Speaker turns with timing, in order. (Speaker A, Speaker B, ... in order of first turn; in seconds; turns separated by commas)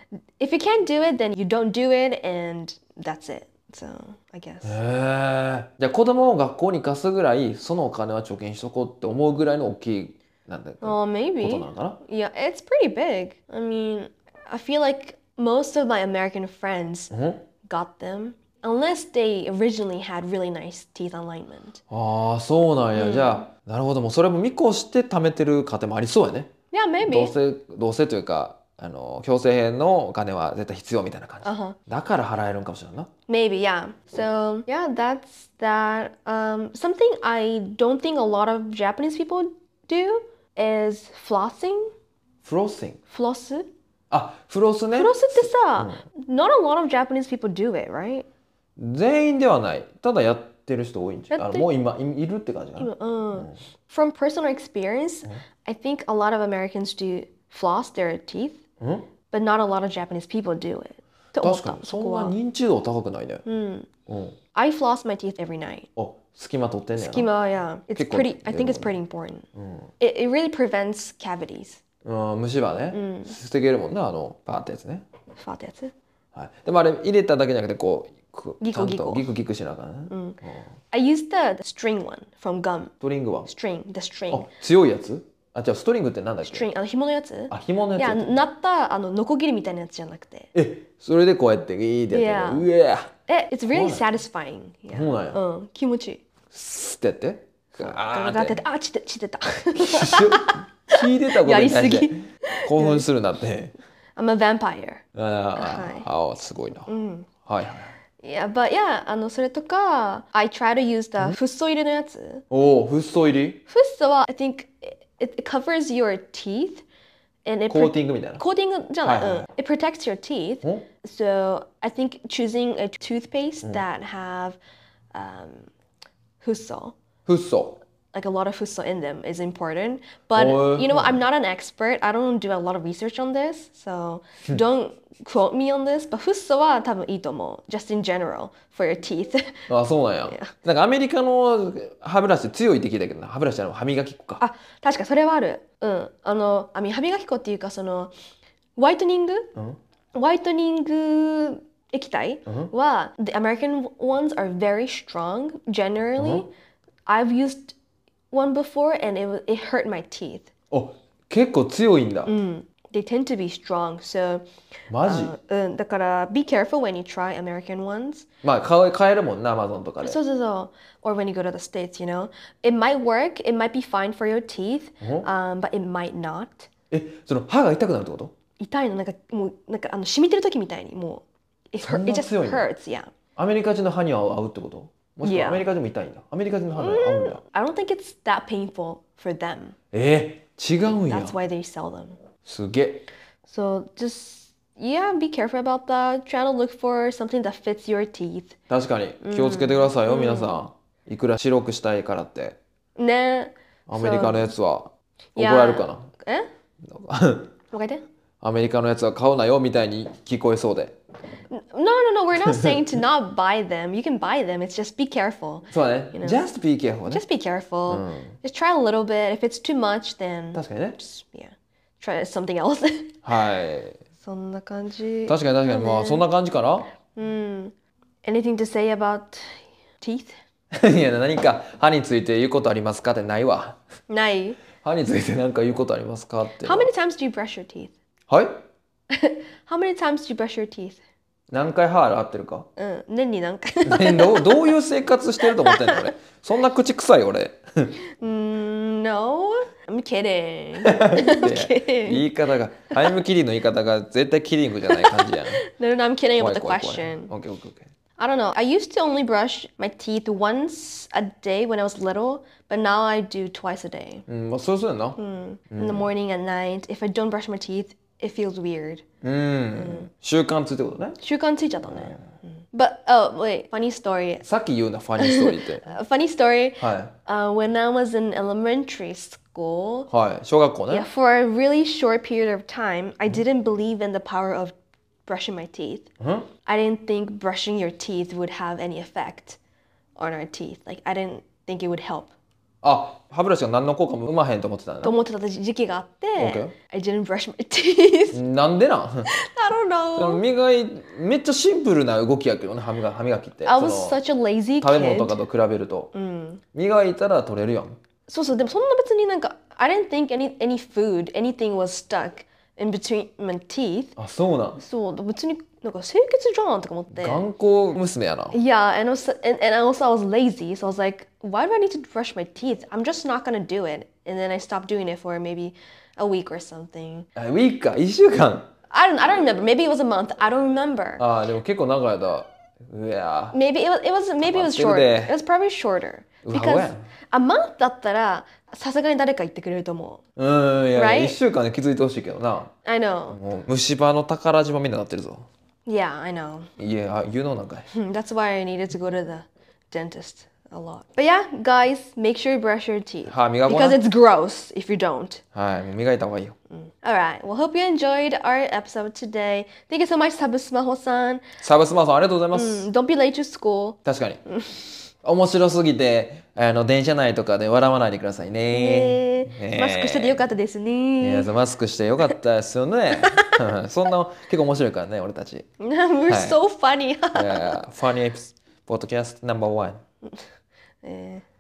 Speaker A: 0.4-4.8, Speaker B: 4.6-12.0, Speaker A: 10.8-17.1, Speaker B: 17.1-17.4, Speaker A: 17.6-21.8, Speaker B: 21.9-26.5, Speaker A: 22.9-23.4, Speaker A: 26.7-27.3, Speaker B: 27.0-33.1, Speaker A: 31.4-31.8, Speaker A: 33.3-41.9, Speaker B: 42.4-43.0, Speaker A: 43.1-43.7, Speaker B: 44.1-46.0, Speaker A: 44.9-48.3, Speaker B: 48.8-53.5, Speaker A: 51.3-51.7, Speaker A: 52.8-58.6, Speaker B: 58.8-59.1, Speaker A: 59.3-62.3, Speaker B: 61.4-63.4, Speaker A: 63.4-63.9, Speaker B: 64.1-64.4, Speaker A: 64.5-65.9, Speaker B: 66.0-67.3, Speaker A: 67.0-69.5, Speaker B: 67.9-69.0, Speaker B: 69.5-69.9, Speaker A: 70.0-71.8, Speaker B: 72.0-75.0, Speaker A: 72.9-73.3, Speaker A: 75.4-75.9, Speaker B: 76.3-80.7, Speaker A: 78.6-79.3, Speaker A: 80.1-80.4, Speaker A: 80.9-82.9, Speaker B: 83.0-83.5, Speaker A: 83.4-84.5, Speaker B: 84.3-86.7, Speaker A: 86.4-90.5, Speaker B: 87.5-88.3, Speaker B: 90.5-93.1, Speaker A: 92.1-92.7, Speaker A: 93.3-96.2, Speaker B: 93.7-94.0, Speaker B: 94.9-95.4, Speaker B: 96.5-98.6, Speaker A: 97.8-103.0, Speaker B: 99.7-103.7, Speaker A: 104.2-105.0, Speaker B: 105.1-106.9, Speaker A: 105.5-106.1, Speaker A: 106.9-107.3, Speaker B: 107.5-108.0, Speaker A: 108.2-112.4, Speaker B: 112.5-113.6, Speaker A: 113.7-116.8, Speaker A: 117.4-124.6, Speaker B: 117.7-118.4, Speaker B: 119.0-119.5, Speaker A: 125.1-125.7, Speaker A: 126.4-127.0, Speaker B: 127.2-127.8, Speaker A: 128.1-139.7, Speaker B: 130.3-131.2, Speaker B: 139.7-144.4, Speaker A: 140.3-140.5, Speaker A: 144.4-148.1, Speaker A: 148.8-149.5, Speaker A: 150.1-156.5, Speaker B: 152.4-152.7, Speaker B: 156.2-156.5, Speaker A: 157.1-157.7, Speaker A: 158.3-160.5, Speaker B: 160.7-162.3, Speaker A: 162.3-164.4, Speaker B: 164.9-165.3, Speaker A: 165.0-168.2, Speaker B: 168.4-170.2, Speaker A: 170.0-176.7, Speaker B: 175.0-175.3, Speaker B: 176.9-178.3, Speaker A: 178.6-183.1, Speaker B: 181.8-182.6, Speaker B: 183.3-187.4, Speaker A: 185.2-185.6, Speaker A: 186.8-189.7, Speaker B: 189.9-191.3, Speaker A: 191.0-192.2, Speaker B: 192.4-193.1, Speaker A: 193.4-198.6, Speaker B: 198.7-202.6, Speaker A: 199.2-200.6, Speaker A: 202.9-204.5, Speaker B: 203.9-206.1, Speaker A: 205.3-206.5, Speaker B: 206.8-207.5, Speaker A: 207.7-208.0, Speaker B: 208.4-210.9, Speaker A: 211.5-216.4, Speaker B: 212.4-212.8, Speaker B: 215.7-217.2, Speaker A: 217.1-223.2, Speaker B: 217.9-218.3, Speaker B: 220.5-221.0, Speaker B: 223.2-224.0, Speaker A: 224.2-226.2, Speaker B: 225.3-226.9, Speaker A: 227.1-227.7, Speaker A: 228.2-230.3, Speaker B: 230.7-233.8, Speaker A: 234.1-234.6, Speaker B: 234.8-236.9, Speaker A: 236.6-237.9, Speaker B: 238.3-238.6, Speaker A: 239.1-241.0, Speaker B: 241.5-242.7, Speaker A: 242.8-244.7, Speaker B: 243.8-248.0, Speaker A: 245.4-246.1, Speaker A: 248.2-252.2, Speaker B: 250.8-255.6, Speaker A: 254.9-257.3, Speaker B: 256.4-257.9, Speaker A: 258.2-264.2, Speaker B: 264.3-265.2, Speaker A: 265.2-269.0, Speaker B: 265.7-266.1, Speaker B: 269.2-271.2, Speaker A: 269.7-270.1, Speaker A: 271.2-274.4, Speaker B: 271.9-272.2, Speaker B: 274.4-275.9, Speaker A: 275.2-280.1, Speaker B: 276.8-277.1, Speaker B: 280.1-281.1, Speaker A: 280.9-286.1, Speaker B: 286.2-286.5, Speaker A: 286.6-289.6, Speaker A: 290.1-292.3, Speaker B: 292.8-295.1, Speaker A: 295.0-298.4, Speaker B: 296.4-296.7, Speaker B: 298.3-299.3, Speaker A: 299.2-300.4, Speaker B: 300.1-304.2, Speaker A: 303.6-305.4, Speaker B: 304.8-306.1, Speaker A: 306.1-306.6, Speaker B: 306.7-308.0, Speaker A: 308.3-314.1, Speaker B: 314.2-314.8, Speaker A: 314.8-317.4, Speaker B: 317.1-318.6, Speaker A: 318.5-327.3, Speaker B: 327.4-328.7, Speaker A: 328.9-331.2, Speaker B: 331.2-333.6, Speaker A: 333.5-340.2, Speaker B: 334.4-335.3, Speaker B: 336.4-337.1, Speaker B: 340.4-342.7, Speaker A: 340.9-341.4, Speaker A: 342.8-343.4, Speaker B: 343.3-345.5, Speaker A: 345.9-346.7, Speaker B: 346.8-347.9, Speaker A: 347.9-355.4, Speaker B: 353.3-354.0, Speaker B: 355.5-356.5, Speaker A: 356.8-361.4, Speaker B: 361.6-362.9, Speaker A: 362.5-365.0, Speaker B: 364.0-364.4, Speaker B: 365.2-370.4, Speaker A: 368.7-371.5, Speaker B: 371.2-375.6, Speaker A: 373.2-373.6, Speaker A: 375.8-377.8, Speaker B: 376.3-376.6, Speaker B: 377.3-380.0, Speaker A: 381.0-381.4